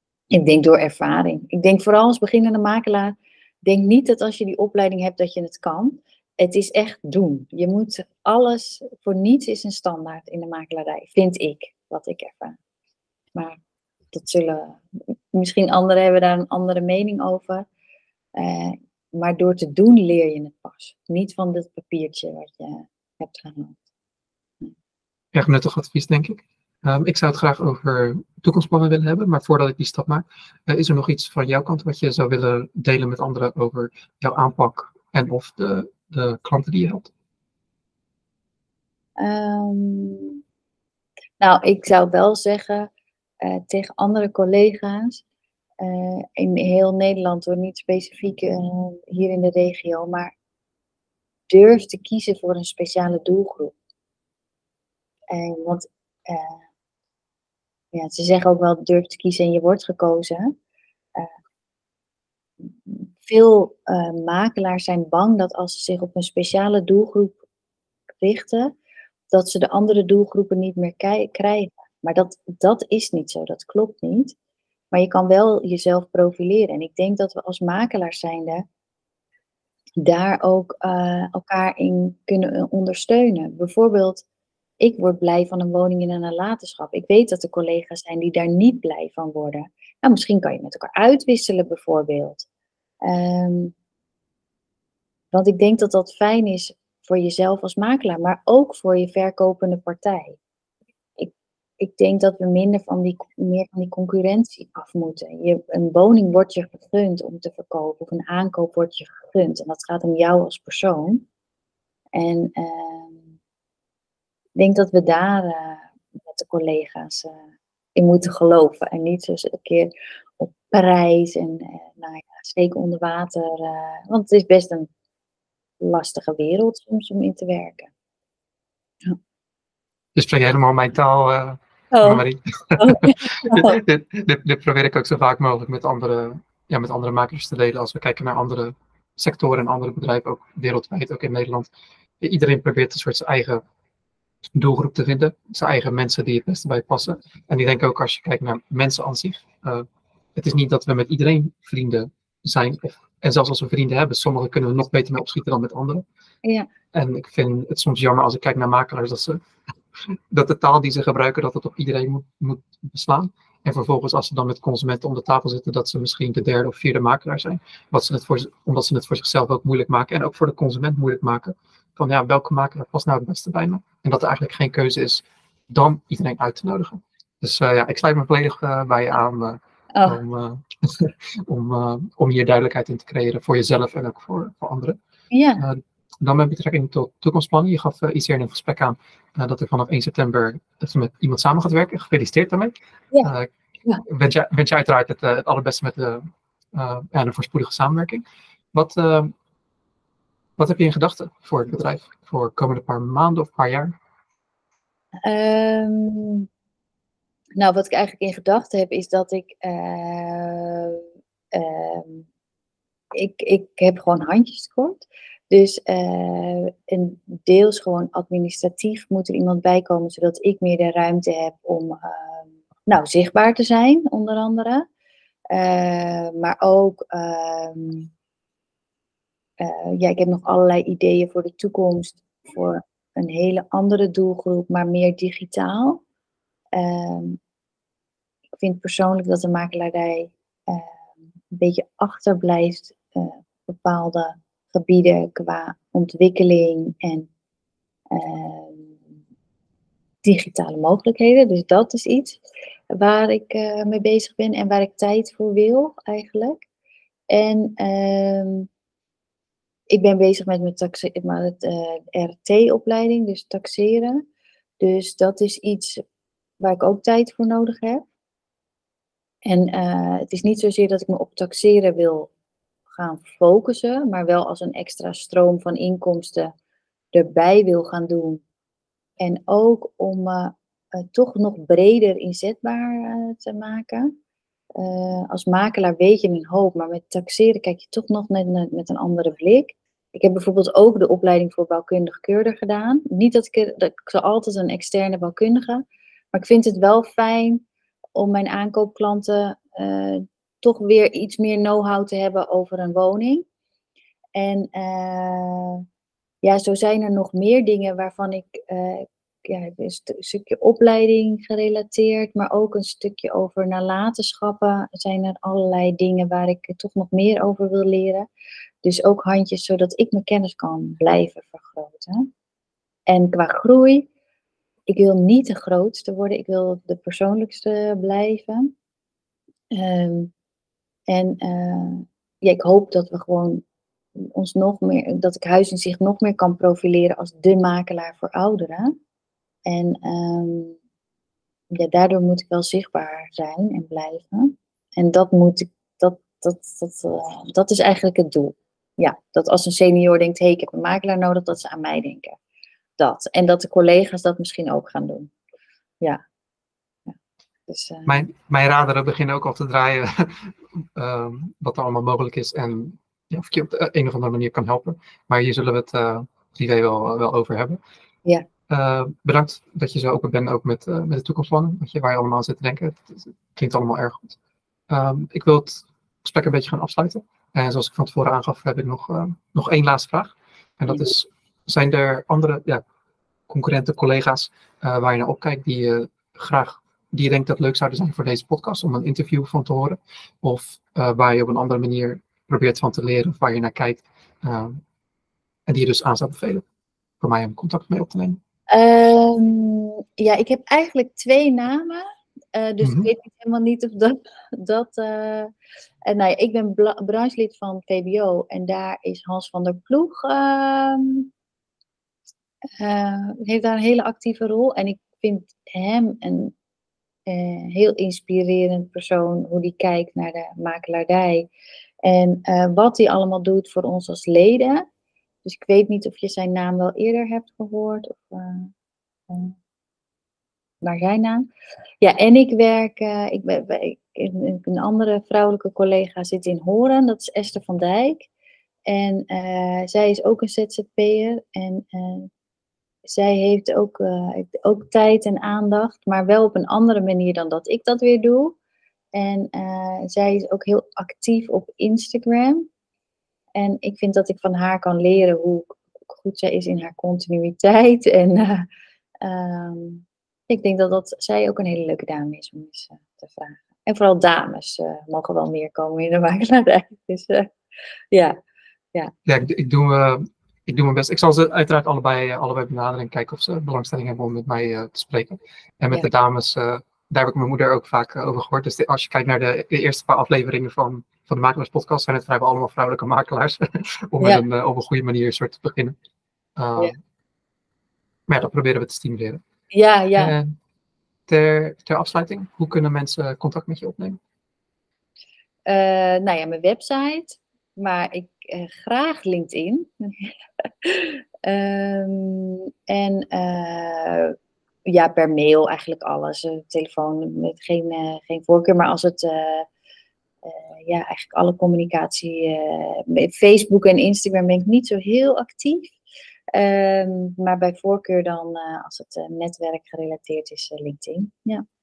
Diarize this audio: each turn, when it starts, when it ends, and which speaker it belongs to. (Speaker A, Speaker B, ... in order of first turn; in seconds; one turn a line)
Speaker A: 0.3-12.6
Speaker A: 13.3-13.6
Speaker A: 14.1-17.6
Speaker A: 18.4-23.8
Speaker B: 25.3-37.1
Speaker A: 39.2-40.4
Speaker A: 41.4-42.9
Speaker A: 43.4-45.2
Speaker A: 45.8-50.3
Speaker A: 51.5-53.7
Speaker A: 55.3-56.6
Speaker A: 57.9-60.5
Speaker A: 62.6-67.4
Speaker A: 68.2-68.7
Speaker A: 69.3-74.3
Speaker A: 74.9-78.6
Speaker A: 80.0-84.2
Speaker A: 84.8-92.5
Speaker A: 93.0-93.7
Speaker A: 95.3-100.4
Speaker A: 101.2-111.3
Speaker A: 112.1-113.3
Speaker A: 114.6-117.4
Speaker A: 117.9-124.9
Speaker A: 125.8-127.9
Speaker B: 130.2-141.7
Speaker A: 131.9-132.2
Speaker A: 132.8-133.8
Speaker B: 142.2-143.6
Speaker B: 144.6-156.0
Speaker A: 156.4-156.7
Speaker B: 156.9-159.4
Speaker B: 160.1-185.0
Speaker A: 185.3-185.6
Speaker B: 185.6-193.5
Speaker B: 194.1-199.3
Speaker B: 200.6-204.0
Speaker A: 205.2-206.5
Speaker A: 207.6-212.2
Speaker A: 213.1-224.9
Speaker A: 225.5-228.1
Speaker A: 229.6-236.0
Speaker A: 236.7-237.4
Speaker A: 238.6-240.9
Speaker A: 241.5-247.3
Speaker A: 248.1-249.0
Speaker A: 250.2-256.6
Speaker A: 257.3-258.7
Speaker A: 259.9-264.2
Speaker A: 264.8-266.0
Speaker A: 266.6-268.0
Speaker A: 269.4-272.3
Speaker A: 272.9-276.5
Speaker A: 277.1-278.4
Speaker A: 279.2-284.1
Speaker A: 284.8-297.6
Speaker A: 298.1-303.4
Speaker A: 304.4-305.8
Speaker A: 306.4-318.3
Speaker A: 318.8-322.3
Speaker A: 323.1-324.1
Speaker A: 324.9-328.7
Speaker A: 329.7-330.3
Speaker A: 331.1-333.6
Speaker A: 334.1-338.9
Speaker A: 339.6-340.8
Speaker A: 341.7-352.4
Speaker A: 353.0-355.3
Speaker A: 357.7-358.2
Speaker B: 358.1-367.8
Speaker B: 368.7-374.4
Speaker B: 374.9-382.8
Speaker B: 383.5-394.8
Speaker B: 395.7-396.6
Speaker B: 397.2-398.4
Speaker A: 398.7-405.5
Speaker B: 402.8-403.1
Speaker A: 406.1-411.3
Speaker A: 412.8-416.5
Speaker A: 417.3-421.5
Speaker A: 422.0-424.9
Speaker A: 425.4-428.7
Speaker A: 429.3-429.5
Speaker A: 430.8-431.5
Speaker A: 432.0-438.3
Speaker A: 438.9-442.3
Speaker A: 443.0-448.6
Speaker A: 449.1-452.7
Speaker A: 453.6-458.7
Speaker A: 459.2-467.5
Speaker B: 469.2-486.0
Speaker B: 486.6-487.0
Speaker B: 488.3-489.4
Speaker A: 489.7-490.4
Speaker B: 490.2-490.5
Speaker B: 491.3-494.2
Speaker A: 495.7-509.7
Speaker A: 510.4-516.0
Speaker A: 516.5-521.6